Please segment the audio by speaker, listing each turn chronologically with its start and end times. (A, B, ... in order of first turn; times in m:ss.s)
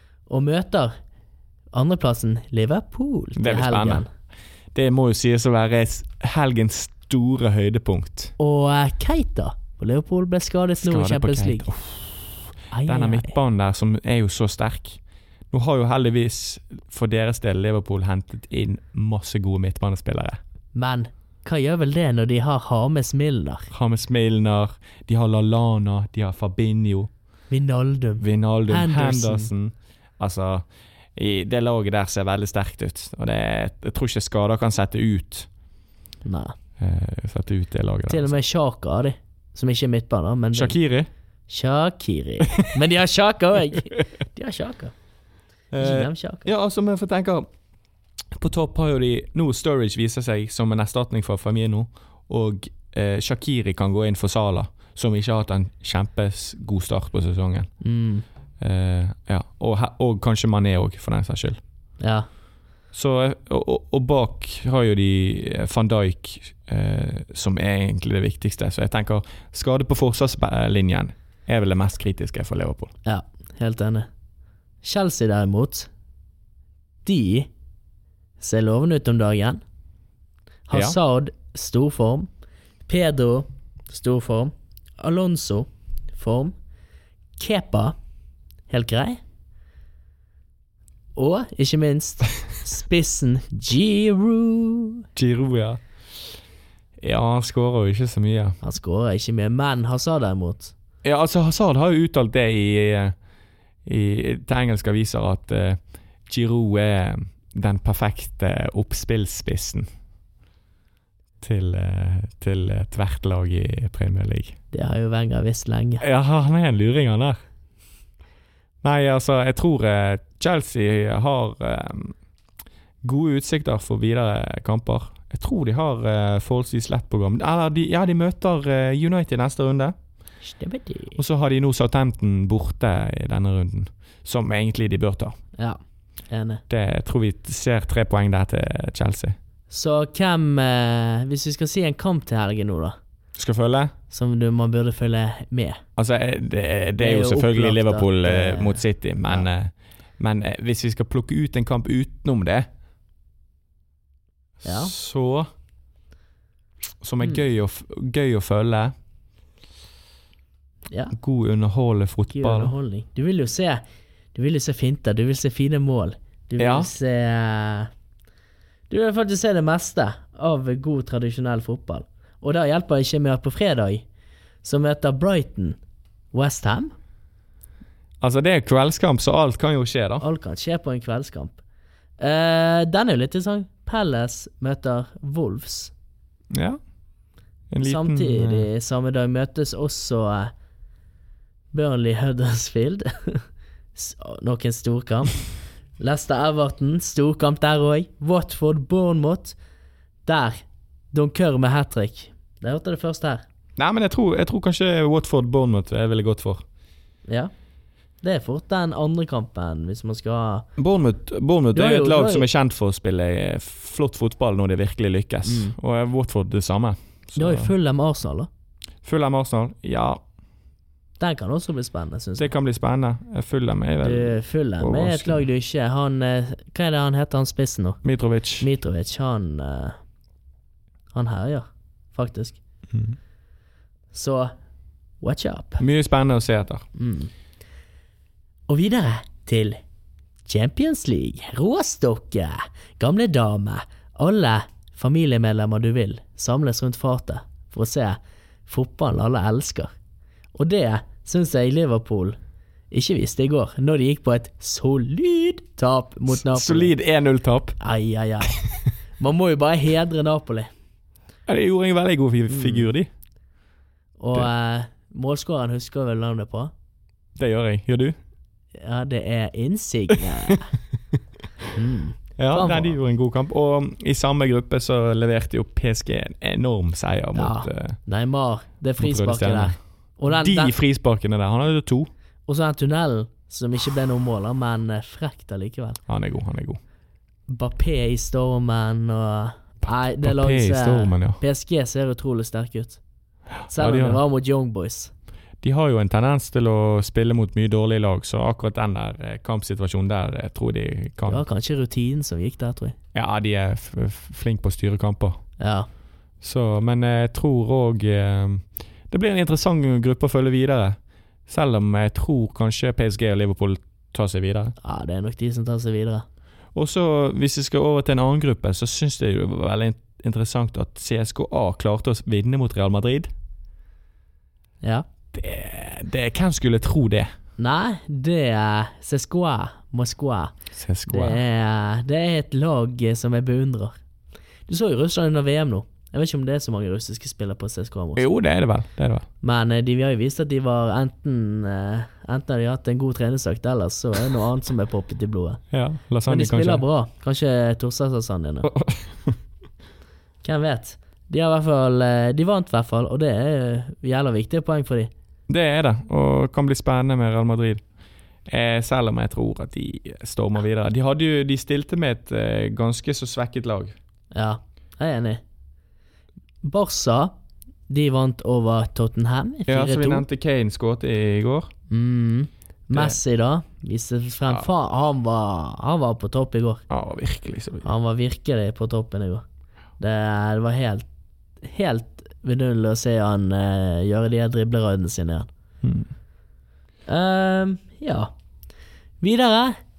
0:00.3-0:00.9 A
0:01.7-0:04.1 A
0:03.4-0:04.0 B
0:04.7-0:08.3 B
0:08.4-0:11.7 A
0:10.8-0:15.0 B
0:12.7-0:13.3 A
0:15.5-0:20.4 B
0:20.8-0:23.7 A
0:23.7-0:27.1 B
0:27.5-0:29.5 A
0:28.2-0:35.5 B
0:36.2-0:36.5 A
0:36.8-0:38.3 B
0:38.1-0:40.8 A
0:40.5-0:41.1 B
0:41.5-0:44.9 A
0:45.7-0:47.5 B
0:45.8-0:46.5 A
0:48.4-0:57.7 B
0:57.8-0:58.2 A
0:58.6-1:01.6 B
1:02.0-1:02.3 A
1:02.9-1:12.9 B
1:13.0-1:14.1 A
1:14.8-1:15.9 A
1:17.0-1:17.5 A
1:18.4-1:19.6 A
1:20.7-1:22.3 A
1:22.8-1:26.5 A
1:27.4-1:28.0 A
1:28.7-1:29.2 A
1:31.2-1:35.0 A
1:35.2-1:35.8 B
1:37.0-1:38.6 B
1:38.6-1:40.7 A
1:41.0-1:43.1 B
1:43.9-1:49.9 B
1:51.4-1:54.6 B
1:54.7-1:56.0 A
1:56.0-1:57.4 B
1:58.8-2:02.2 B
2:03.0-2:09.9 B
2:10.4-2:11.2 A
2:11.2-2:15.4 B
2:15.6-2:16.6 A
2:16.7-2:19.4 B
2:19.7-2:23.0 A
2:23.4-2:23.9 B
2:24.1-2:25.8 A
2:26.0-2:32.7 B
2:27.0-2:29.5 A
2:34.6-2:35.5 B
2:34.6-2:34.9 A
2:37.0-2:38.9 B
2:41.1-2:42.8 B
2:42.3-2:43.8 A
2:44.3-2:47.9 A
2:46.6-2:46.9 B
2:48.9-2:54.1 A
2:54.6-2:55.8 A
2:56.3-2:56.9 A
2:58.2-3:00.2 B
3:00.2-3:01.6 A
3:02.2-3:05.9 A
3:06.5-3:06.8 B
3:07.7-3:08.7 B
3:07.8-3:10.5 A
3:11.7-3:19.6 A
3:20.3-3:23.4 A
3:23.8-3:26.6 B
3:28.2-3:30.7 A
3:30.8-3:37.7 B
3:31.7-3:32.5 A
3:35.4-3:35.8 A
3:37.4-3:38.5 A
3:39.0-3:40.2 B
3:41.2-3:42.5 A
3:42.4-3:45.4 B
3:44.0-3:48.0 A
3:48.0-3:48.7 B
3:48.6-3:50.0 A
3:51.1-3:52.6 A
3:52.9-3:53.2 B
3:54.1-3:54.5 A
3:55.2-3:55.8 A
3:55.8-3:56.8 B
3:57.0-3:57.3 A
3:58.7-3:59.8 A
4:00.5-4:09.9 A
4:10.6-4:12.4 A
4:12.9-4:17.0 A
4:16.3-4:17.8 B
4:17.8-4:18.6 A
4:19.2-4:20.7 A
4:21.5-4:23.1 B
4:22.5-4:22.9 A
4:24.2-4:26.7 A
4:27.4-4:28.2 B
4:28.8-4:30.7 A
4:31.7-4:33.0 A
4:32.4-4:38.0 B
4:37.4-4:40.8 A
4:39.0-4:39.8 B
4:40.3-4:42.1 B
4:42.5-4:46.0 A
4:46.1-4:46.8 B
4:47.5-4:53.0 A
4:49.8-4:51.4 B
4:53.6-4:54.2 B
4:53.7-4:55.1 A
4:55.6-5:01.4 B
5:01.3-5:03.0 A
5:03.1-5:05.4 B
5:05.6-5:05.9 A
5:06.4-5:14.8 B
5:14.8-5:16.2 A
5:16.8-5:23.3 B
5:25.3-5:27.3 B
5:27.6-5:30.5 A
5:30.7-5:31.4 B
5:31.1-5:34.0 A
5:34.7-5:38.3 A
5:38.2-5:39.2 B
5:39.4-5:45.6 A
5:45.7-5:46.8 B
5:46.3-5:48.7 A
5:48.7-5:49.4 B
5:50.4-5:55.1 A
5:55.5-5:57.8 B
5:58.5-6:04.0 B
6:04.3-6:05.4 A
6:06.6-6:07.3 A
6:07.9-6:10.2 A
6:09.7-6:11.7 B
6:11.9-6:16.8 A
6:12.9-6:13.2 B
6:16.9-6:17.9 B
6:17.8-6:19.4 A
6:20.0-6:21.1 A
6:21.6-6:25.5 A
6:25.8-6:26.1 B
6:27.1-6:28.3 A
6:29.2-6:29.8 A